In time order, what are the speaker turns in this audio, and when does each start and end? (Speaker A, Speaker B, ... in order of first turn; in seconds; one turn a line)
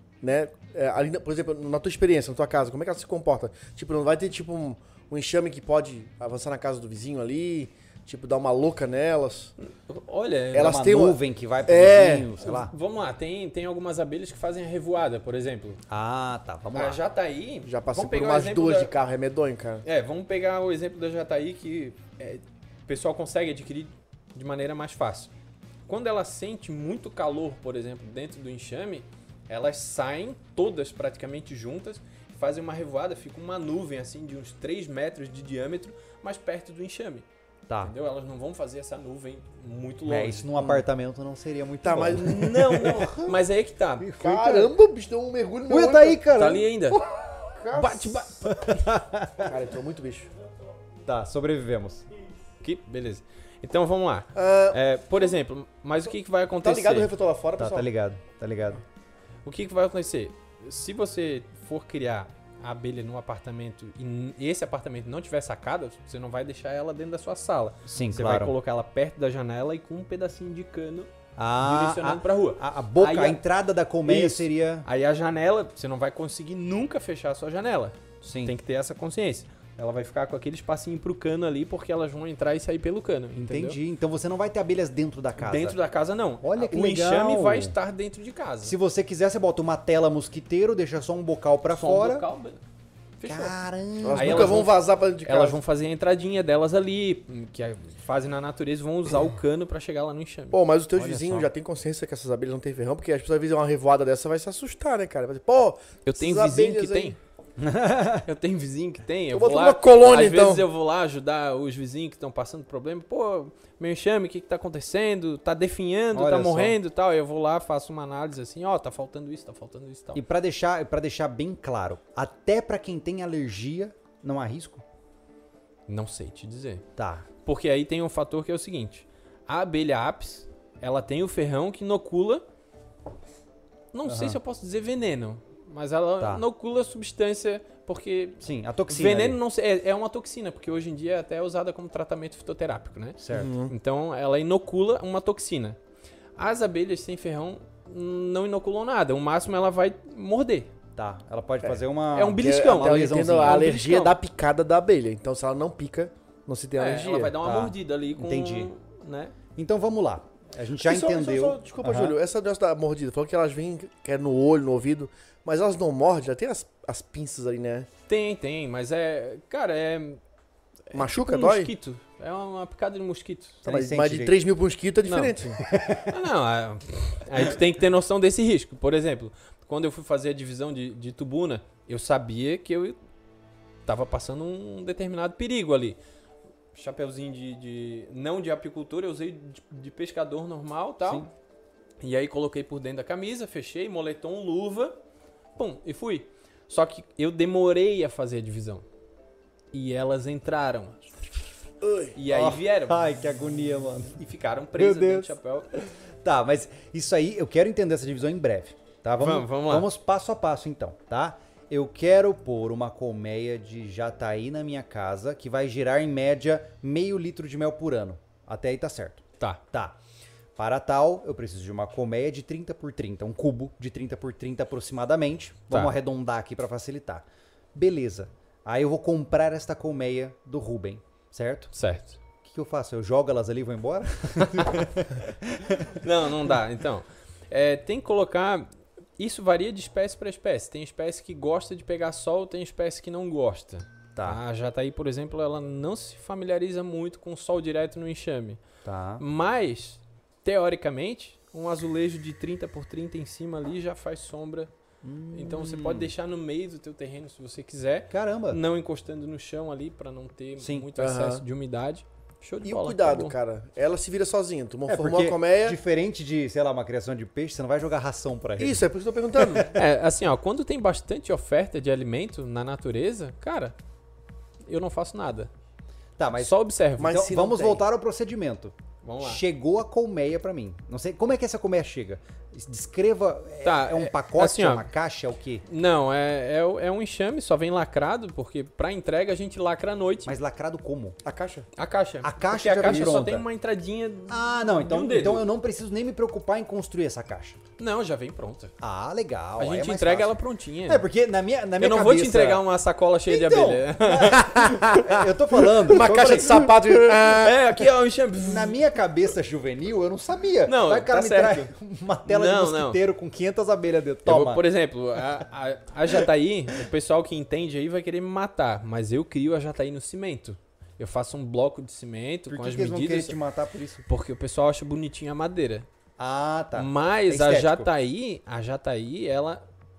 Speaker A: 0.2-9.5
Speaker B: 9.6-10.8
Speaker A: 10.5-12.3
Speaker C: 10.6-12.7
Speaker B: 12.4-15.8
Speaker C: 15.9-17.0
Speaker B: 16.7-18.9
Speaker A: 17.6-19.8
Speaker B: 19.8-25.3
Speaker B: 25.9-37.3
Speaker C: 37.7-37.9
Speaker B: 37.8-40.5
Speaker C: 40.1-43.4
Speaker A: 40.6-40.8
Speaker A: 41.8-43.3
Speaker B: 42.1-44.2
Speaker C: 44.0-44.7
Speaker A: 44.2-46.2
Speaker C: 45.7-46.7
Speaker B: 46.4-47.0
Speaker A: 47.0-48.3
Speaker B: 47.7-48.7
Speaker C: 48.5-49.5
Speaker A: 49.4-50.3
Speaker C: 51.0-52.0
Speaker B: 52.6-57.1
Speaker A: 54.4-55.2
Speaker A: 56.6-57.9
Speaker C: 57.6-58.8
Speaker B: 59.5-73.4
Speaker C: 67.8-68.5
Speaker C: 71.4-74.9
Speaker B: 74.0-83.8
Speaker C: 78.2-78.5
Speaker C: 83.4-85.8
Speaker B: 85.4-88.8
Speaker C: 86.4-87.8
Speaker C: 88.6-92.3
Speaker B: 91.7-92.6
Speaker B: 93.2-93.6
Speaker C: 93.2-94.7
Speaker A: 94.0-95.6
Speaker B: 94.1-100.6
Speaker A: 100.5-107.2
Speaker C: 101.0-101.5
Speaker B: 106.1-107.2
Speaker C: 107.6-108.3
Speaker B: 108.2-120.2
Speaker A: 109.3-110.7
Speaker C: 116.1-116.8
Speaker C: 120.1-124.8
Speaker B: 125.9-126.8
Speaker C: 127.0-127.3
Speaker B: 127.4-132.4
Speaker B: 133.9-145.8
Speaker C: 134.1-134.4
Speaker C: 138.4-139.4
Speaker C: 143.2-143.5
Speaker A: 143.3-143.7
Speaker B: 146.4-150.7
Speaker C: 151.0-153.7
Speaker B: 152.1-154.2
Speaker A: 152.4-157.3
Speaker B: 156.8-159.3
Speaker C: 157.4-158.7
Speaker C: 159.6-162.2
Speaker A: 160.8-167.9
Speaker B: 168.1-170.2
Speaker B: 170.9-173.6
Speaker A: 170.9-171.7
Speaker C: 173.6-174.4
Speaker A: 173.6-175.6
Speaker B: 175.1-175.4
Speaker C: 175.6-176.1
Speaker B: 176.0-183.0
Speaker B: 183.9-186.0
Speaker B: 186.7-191.3
Speaker C: 191.0-191.3
Speaker B: 192.0-195.0
Speaker B: 195.6-198.9
Speaker B: 199.7-201.1
Speaker A: 201.8-202.1
Speaker B: 202.1-203.0
Speaker C: 202.3-204.2
Speaker B: 204.2-205.7
Speaker C: 204.7-220.0
Speaker B: 209.2-209.9
Speaker C: 220.6-231.7
Speaker B: 225.7-225.9
Speaker B: 231.7-232.2
Speaker C: 232.4-236.0
Speaker B: 234.5-234.9
Speaker B: 236.0-248.6
Speaker C: 244.1-244.4
Speaker C: 248.8-249.2
Speaker B: 249.2-254.7
Speaker C: 255.0-256.1
Speaker B: 255.3-263.4
Speaker C: 258.1-258.6
Speaker C: 260.6-260.9
Speaker A: 261.0-261.4
Speaker A: 262.6-265.8
Speaker C: 264.9-268.9
Speaker A: 268.6-269.7
Speaker C: 269.4-269.8
Speaker B: 269.7-273.8
Speaker B: 274.6-275.5
Speaker C: 276.2-285.6
Speaker B: 276.4-277.2
Speaker A: 277.0-277.8
Speaker B: 279.0-279.4
Speaker B: 283.6-284.9
Speaker B: 285.6-290.4
Speaker C: 290.2-291.2
Speaker A: 291.2-291.6
Speaker B: 291.8-295.5
Speaker C: 292.2-293.4
Speaker A: 292.8-293.3
Speaker C: 294.3-297.6
Speaker B: 297.8-298.8
Speaker C: 298.8-302.6
Speaker B: 299.6-301.1
Speaker B: 301.8-305.0
Speaker C: 303.3-306.7
Speaker A: 304.6-305.1
Speaker A: 305.9-307.6
Speaker B: 307.2-308.8
Speaker C: 308.4-314.6
Speaker B: 310.6-311.7
Speaker B: 312.3-313.0
Speaker B: 314.2-323.4
Speaker C: 322.5-324.1
Speaker B: 324.1-325.9
Speaker C: 326.2-327.9
Speaker B: 326.8-329.6